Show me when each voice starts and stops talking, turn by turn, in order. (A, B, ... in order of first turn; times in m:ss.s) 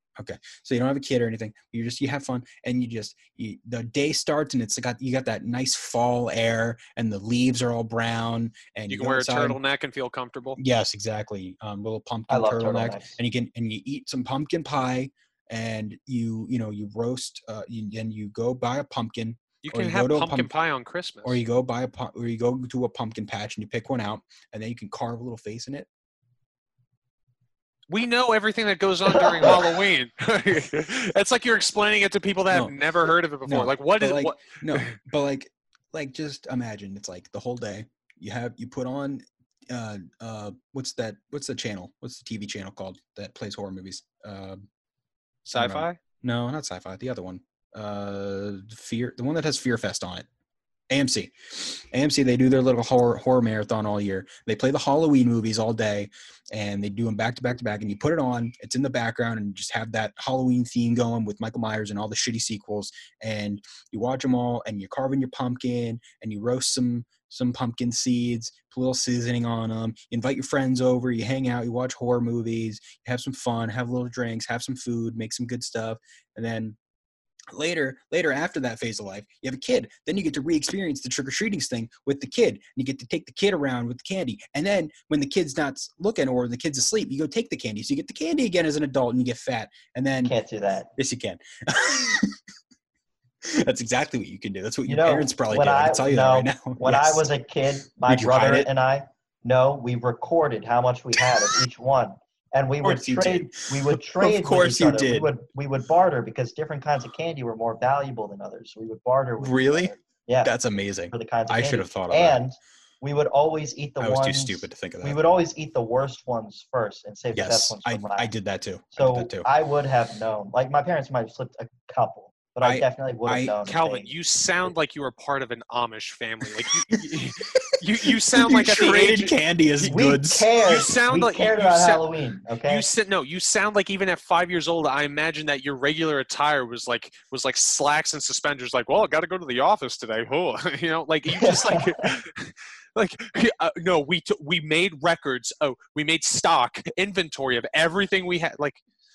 0:00.2-0:09.6 A
0:08.9-0:10.6 B
0:10.6-0:20.5 A
0:12.3-0:13.2 C
0:19.6-0:21.4 B
0:21.2-0:25.9 A
0:27.9-0:35.0 B
0:29.2-0:29.7 C
0:33.4-0:44.6 A
0:45.4-0:46.0 B
0:45.5-0:50.2 A
0:50.9-1:16.8 A
1:17.5-1:30.3 A
1:30.2-1:30.9 C
1:31.0-1:32.4 A
1:33.4-1:37.3 A
1:34.9-1:50.5 C
1:38.0-1:38.7 A
1:42.8-1:45.3 A
1:49.4-1:52.4 A
1:51.1-1:58.3 C
1:54.0-1:55.2 A
1:57.3-1:59.5 A
1:58.9-2:04.1 C
2:02.6-2:03.6 A
2:03.6-2:09.4 B
2:07.6-2:10.5 A
2:09.8-2:12.9 C
2:10.6-2:12.0 B
2:12.6-2:28.8 B
2:21.3-2:22.1 C